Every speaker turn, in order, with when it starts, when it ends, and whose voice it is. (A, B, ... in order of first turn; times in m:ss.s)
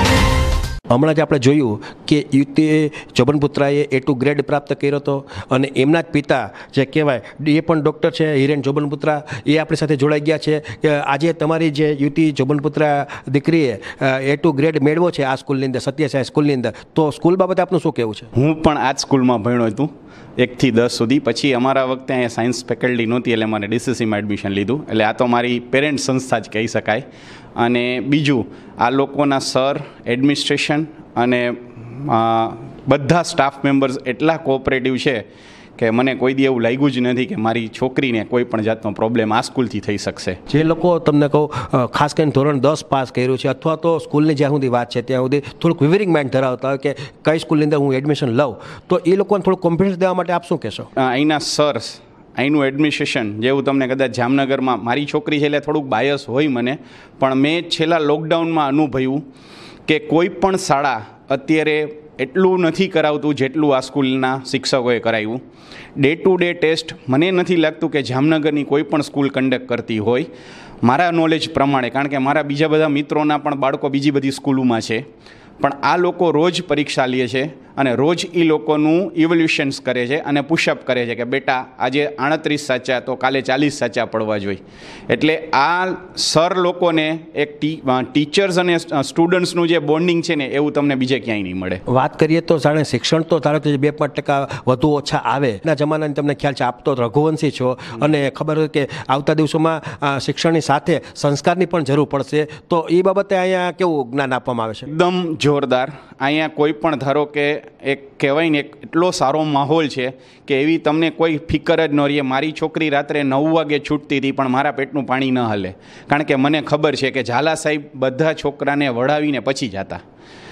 0:00.9-0:18.3 A
0:18.4-0:27.0 B
0:27.6-0:31.5 B
0:32.1-0:35.2 B
0:35.8-0:40.4 B
0:40.5-0:50.9 A
0:51.0-0:59.2 B
0:59.9-1:05.4 B
1:06.0-1:10.3 B
1:10.8-1:15.0 B
1:15.6-1:31.8 B
1:31.9-1:44.9 A
1:44.9-2:00.0 B